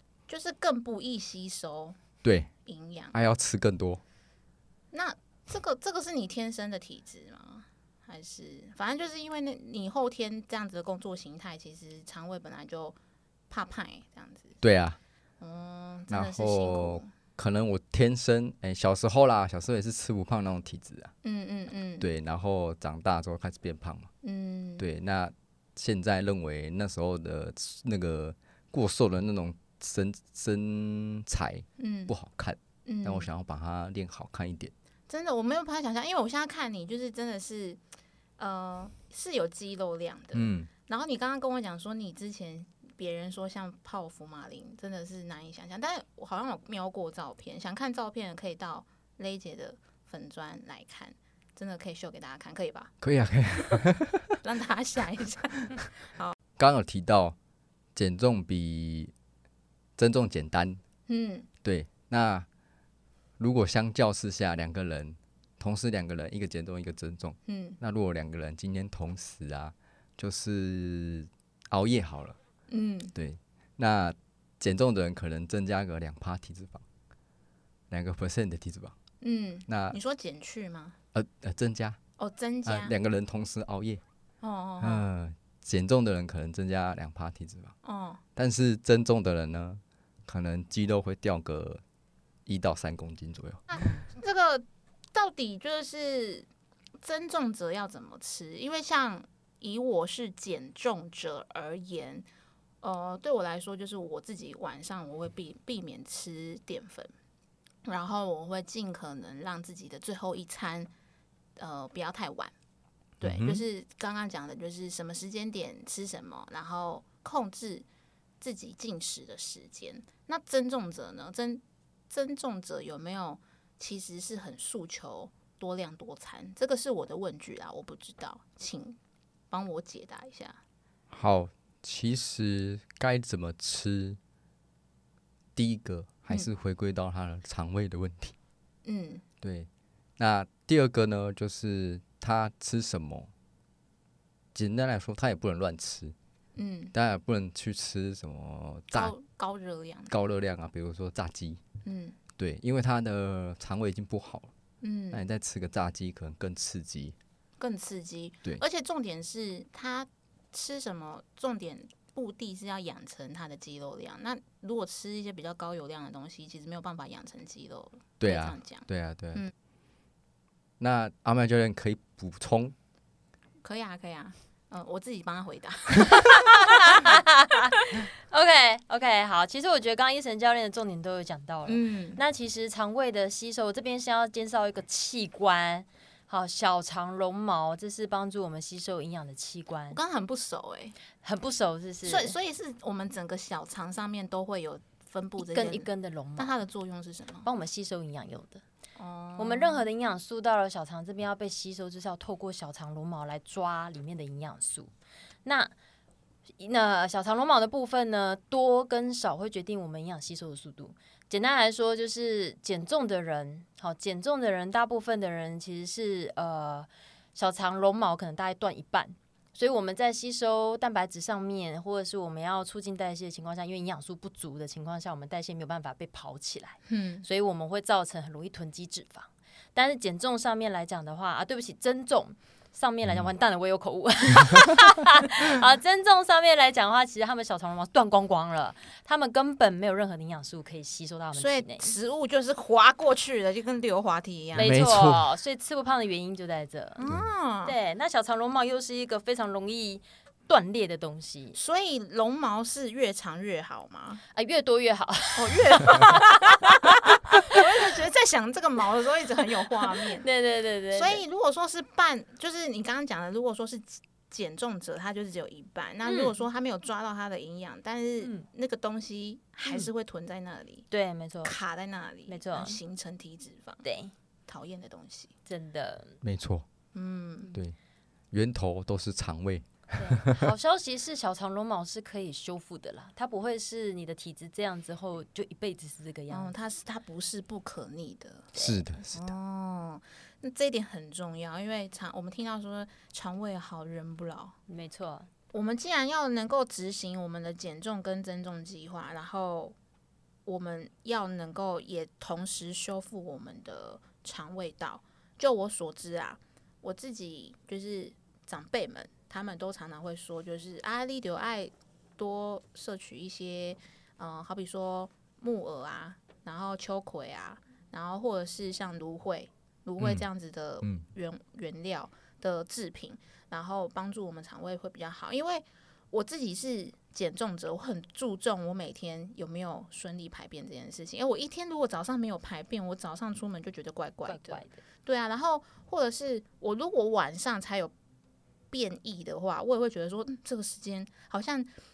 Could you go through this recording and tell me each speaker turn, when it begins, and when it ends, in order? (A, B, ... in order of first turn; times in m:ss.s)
0:00.3-0:02.0 A
0:02.2-0:02.5 B
0:02.6-0:03.2 A
0:03.1-0:04.0 B
0:04.9-0:13.0 A
0:13.5-0:14.6 A
0:14.6-0:15.0 B
0:15.4-0:17.1 A
0:16.1-0:21.1 B
0:21.2-0:22.1 A
0:22.0-0:24.1 B
0:24.2-0:24.8 A
0:24.8-0:34.7 B
0:31.8-0:32.1 A
0:32.9-0:33.3 A
0:35.1-0:37.8 A
0:38.4-0:52.9 A
0:40.3-0:40.7 B
0:53.0-0:54.4 B
0:54.4-0:56.4 A
0:56.6-0:57.4 B
0:58.0-0:59.1 B
1:00.0-1:00.8 B
1:01.1-1:01.5 A
1:01.6-1:02.5 B
1:03.4-1:12.4 B
1:07.5-1:07.8 A
1:12.7-1:13.1 A
1:13.2-1:16.8 B
1:17.9-1:19.0 B
1:19.2-1:21.0 A
1:19.7-1:20.0 B
1:21.1-1:22.0 B
1:22.2-1:22.9 A
1:22.6-1:24.0 B
1:24.4-1:25.1 A
1:24.8-1:27.7 B
1:27.8-1:28.2 A
1:28.4-1:31.8 B
1:32.5-1:33.6 B
1:33.7-1:36.5 A
1:37.0-1:42.3 A
1:42.8-1:47.1 A
1:47.9-1:50.9 A
1:51.6-1:52.5 A
1:53.2-1:57.8 A
1:53.2-1:53.6 B
1:58.4-2:09.0 A
2:09.5-2:10.6 A
2:11.1-2:14.2 B
2:15.6-2:18.4 B
2:18.8-2:19.2 A
2:19.4-2:23.3 B
2:24.5-2:26.2 B
2:26.6-2:26.9 A
2:26.9-2:29.1 B
2:28.9-2:30.2 A
2:30.1-2:31.6 B
2:31.8-2:32.2 A
2:32.4-2:34.5 B
2:34.8-2:35.2 A
2:35.1-2:37.2 B
2:37.6-2:49.5 A
2:48.2-2:49.4 B
2:50.8-2:52.8 B
2:53.6-2:58.0 A
2:56.3-3:10.0 C
3:01.7-3:02.2 A
3:09.9-3:11.0 A
3:11.2-3:12.4 C
3:12.0-3:17.5 A
3:15.4-3:16.5 C
3:17.4-3:18.6 C
3:19.0-3:19.9 A
3:19.4-3:24.9 C
3:25.4-3:25.7 C
3:26.6-4:01.9 C
3:46.9-3:47.2 A
4:01.4-4:04.7 A
4:04.6-4:05.3 B
4:04.6-4:07.0 C
4:07.0-4:07.8 A
4:07.6-4:11.6 C
4:11.5-4:14.2 A
4:14.3-4:17.6 C
4:15.4-4:20.2 A
4:19.7-4:21.2 C
4:20.9-4:30.9 A
4:26.0-4:26.4 C
4:30.9-4:31.6 C
4:31.4-4:33.8 A
4:32.3-4:32.8 C
4:33.8-4:34.1 C
4:34.5-4:35.3 A
4:35.5-4:36.2 C
4:36.2-4:36.7 B
4:36.9-4:37.5 A
4:38.3-4:40.4 B
4:40.0-4:46.5 C
4:46.3-4:48.5 A
4:48.6-4:48.8 C
4:48.6-4:49.3 B
4:49.1-4:54.6 A
4:54.7-4:55.3 C
4:55.5-4:59.8 A
5:00.5-5:37.9 A
5:20.0-5:20.3 B
5:34.3-5:34.8 C
5:38.7-5:41.7 A